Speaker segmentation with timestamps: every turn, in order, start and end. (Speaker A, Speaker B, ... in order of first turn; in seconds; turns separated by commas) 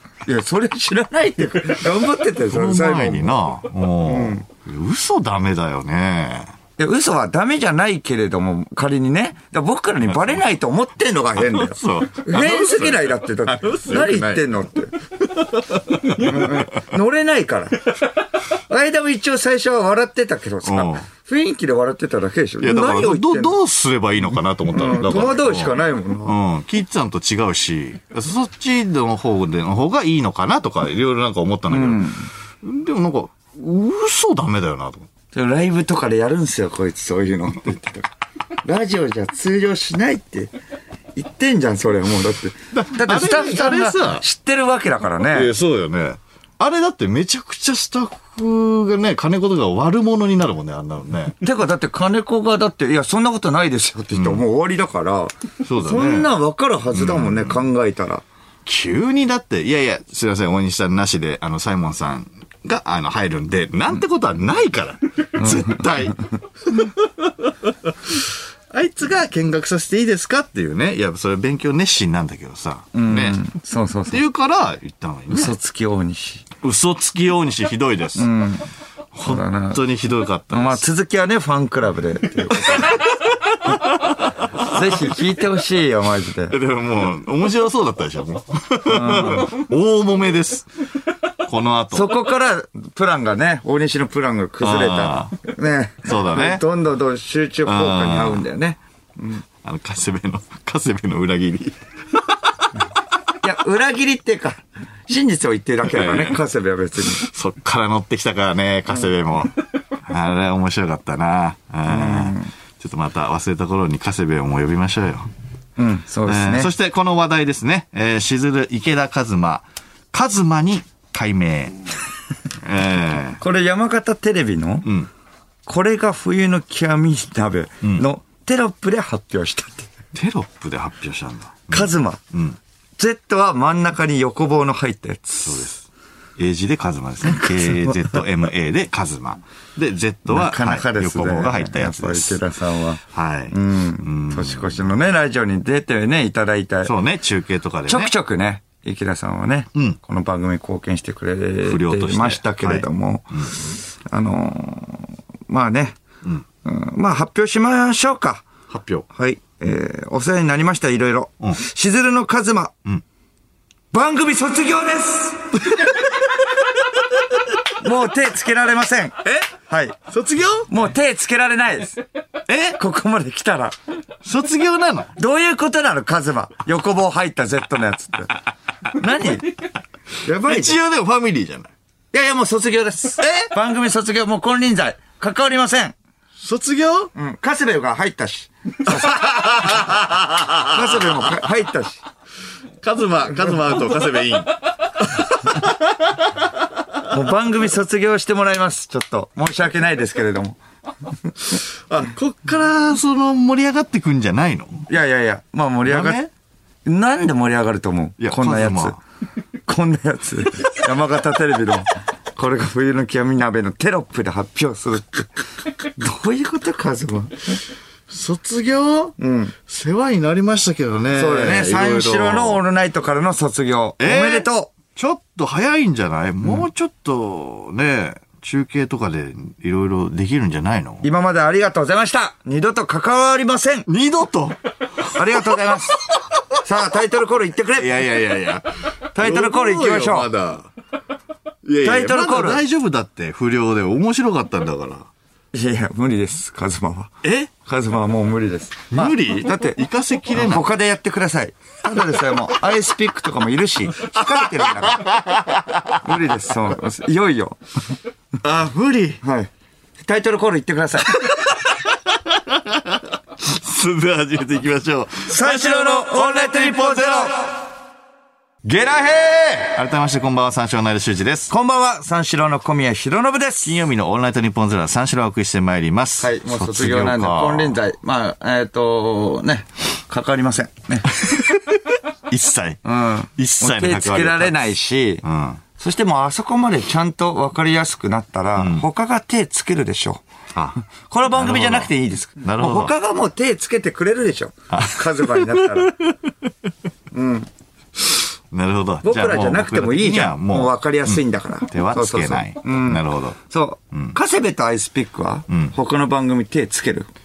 Speaker A: 0.2-3.4, Speaker B: 2.5-6.5, Speaker A: 4.0-4.5, Speaker A: 6.8-14.9, Speaker B: 11.4-14.5, Speaker B: 15.2-16.9, Speaker A: 16.1-23.6, Speaker B: 20.6-21.1, Speaker B: 22.6-35.1, Speaker A: 24.7-26.4, Speaker A: 31.7-32.3, Speaker A: 35.3-38.1, Speaker A: 38.6-40.5, Speaker A: 41.1-45.5, Speaker B: 42.7-44.2, Speaker B: 45.3-51.4, Speaker A: 51.4-58.2, Speaker B: 54.1-54.4, Speaker B: 55.6-56.3, Speaker B: 56.9-57.6, Speaker B: 58.6-73.4, Speaker A: 65.4-66.2, Speaker A: 72.9-74.2, Speaker B: 74.1-75.5, Speaker A: 75.3-76.5, Speaker B: 76.6-78.3, Speaker A: 78.2-78.7, Speaker B: 79.1-80.8, Speaker A: 79.2-79.8, Speaker A: 80.5-83.1, Speaker B: 82.8-84.7, Speaker A: 84.6-86.6, Speaker B: 86.5-90.7, Speaker A: 88.9-89.5, Speaker B: 91.4-92.1, Speaker A: 91.9-99.5, Speaker B: 94.6-95.4, Speaker B: 96.0-96.6, Speaker B: 97.7-98.4, Speaker B: 99.6-101.8, Speaker A: 103.4-107.2, Speaker B: 105.9-106.4, Speaker B: 107.0-115.3, Speaker A: 111.9-112.5, Speaker A: 115.8-116.7, Speaker B: 116.3-121.9, Speaker B: 122.6-123.4, Speaker A: 123.4-124.9, Speaker A: 125.7-129.9, Speaker B: 130.2-132.6, Speaker A: 131.7-132.2, Speaker A: 133.0-135.7, Speaker B: 135.4-142.4, Speaker A: 137.3-138.2, Speaker A: 140.3-143.0, Speaker B: 143.1-144.9, Speaker A: 143.5-146.9, Speaker B: 146.8-148.1, Speaker A: 147.9-156.0, Speaker B: 151.6-153.5, Speaker A: 156.6-158.4, Speaker B: 158.7-159.1, Speaker A: 159.1-162.8, Speaker A: 163.9-165.9, Speaker A: 167.8-170.0, Speaker B: 169.2-169.5, Speaker B: 170.1-170.7, Speaker A: 170.7-172.0, Speaker B: 172.5-172.8, Speaker A: 172.8-173.8, Speaker B: 174.2-175.1, Speaker A: 175.2-178.3, Speaker A: 179.0-179.6, Speaker A: 180.2-180.8, Speaker B: 180.4-181.7, Speaker A: 182.1-185.9, Speaker B: 183.2-183.5, Speaker B: 186.4-187.1, Speaker A: 187.2-189.9, Speaker B: 189.1-190.7, Speaker A: 190.6-192.0, Speaker B: 192.8-196.4, Speaker A: 197.1-200.6, Speaker B: 201.5-204.9, Speaker A: 204.9-206.2, Speaker B: 205.9-206.3, Speaker A: 206.8-209.0, Speaker B: 208.2-209.0, Speaker A: 209.7-217.6, Speaker B: 218.1-219.2, Speaker A: 219.2-219.5, Speaker B: 219.7-222.6, Speaker A: 221.1-224.7, Speaker B: 224.0-231.1, Speaker A: 231.0-233.9, Speaker B: 233.9-236.6, Speaker A: 235.1-236.0, Speaker A: 236.6-238.0, Speaker B: 237.8-240.7, Speaker A: 239.2-240.3, Speaker B: 241.6-245.1, Speaker A: 241.8-242.6, Speaker A: 245.5-255.1, Speaker B: 247.2-247.5, Speaker B: 248.9-250.7, Speaker B: 254.1-256.0, Speaker A: 256.0-257.6, Speaker B: 258.4-259.2, Speaker A: 259.2-261.2, Speaker B: 261.2-267.5, Speaker A: 265.3-267.5, Speaker B: 268.6-271.5, Speaker A: 269.1-269.5, Speaker A: 271.5-273.8, Speaker B: 273.6-277.8, Speaker A: 276.2-281.1, Speaker B: 281.2-284.7, Speaker A: 282.9-285.2, Speaker B: 285.2-285.6, Speaker A: 285.8-290.2, Speaker B: 288.6-288.9, Speaker A: 291.1-296.0, Speaker B: 291.4-291.9, Speaker B: 292.4-292.9, Speaker B: 294.7-295.9, Speaker A: 297.1-297.5, Speaker B: 298.2-303.4, Speaker A: 299.0-307.1, Speaker B: 305.5-305.7